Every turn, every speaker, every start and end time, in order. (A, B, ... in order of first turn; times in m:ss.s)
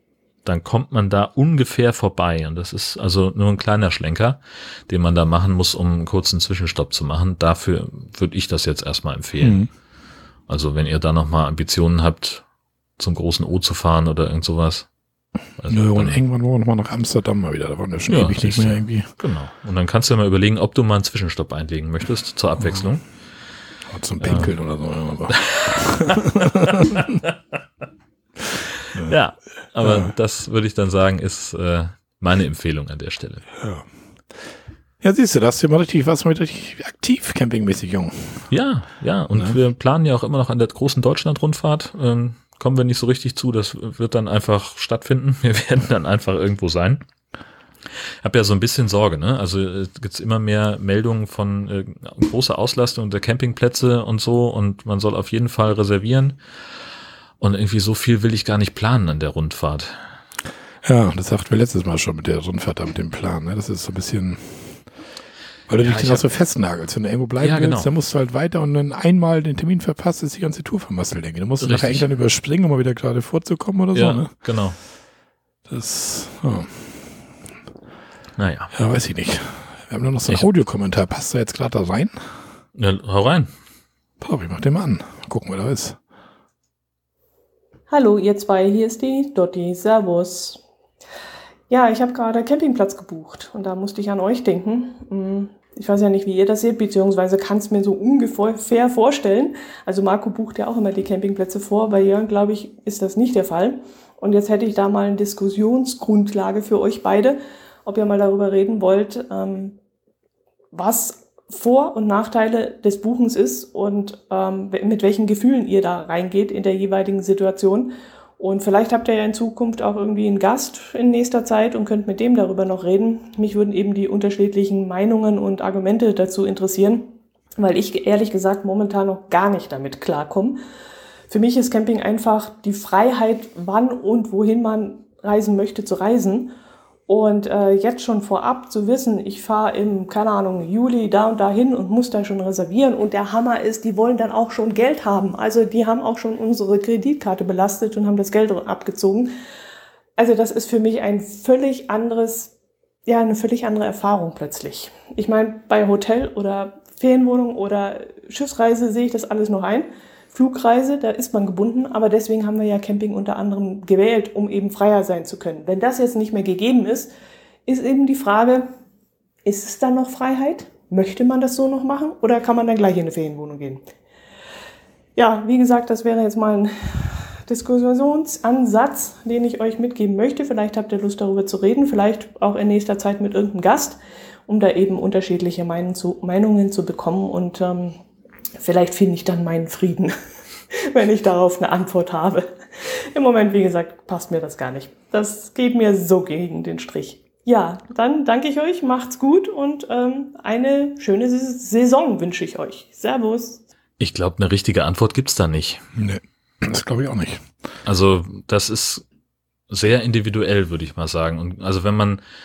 0:00.4-0:09.6 A
0:09.4-0:09.7 B
0:10.5-0:12.4 A
0:13.0-0:14.9 A
0:15.6-0:16.2 A
0:15.7-0:19.1 B
0:18.1-0:23.0 A
0:23.9-0:27.1 B
0:24.2-0:24.5 A
0:25.3-0:27.2 A
0:28.8-0:33.4 A
0:29.8-0:30.1 B
0:33.6-0:33.9 B
0:35.0-0:38.5 B
0:38.5-0:47.0 A
0:48.2-0:56.4 A
0:57.4-1:00.1 A
1:00.8-1:04.8 B
1:05.7-1:14.3 B
1:05.8-1:06.2 A
1:07.4-1:07.9 A
1:11.6-1:12.0 A
1:13.9-1:14.8 A
1:15.7-1:17.2 B
1:18.4-1:18.7 A
1:18.7-1:22.3 B
1:22.8-1:23.5 A
1:24.2-1:26.0 B
1:27.9-1:30.6 C
1:31.7-1:49.8 C
1:50.7-2:10.6 C
2:11.3-2:16.5 C
2:17.1-2:29.3 C
2:30.2-2:32.5 C
2:33.1-2:47.1 C
2:47.7-2:48.7 C
2:49.4-2:53.8 C
2:55.2-3:08.0 C
3:08.6-3:10.1 C
3:10.7-3:23.6 C
3:24.0-3:25.8 A
3:26.0-3:27.5 B
3:27.9-3:29.0 A
3:29.7-3:32.2 A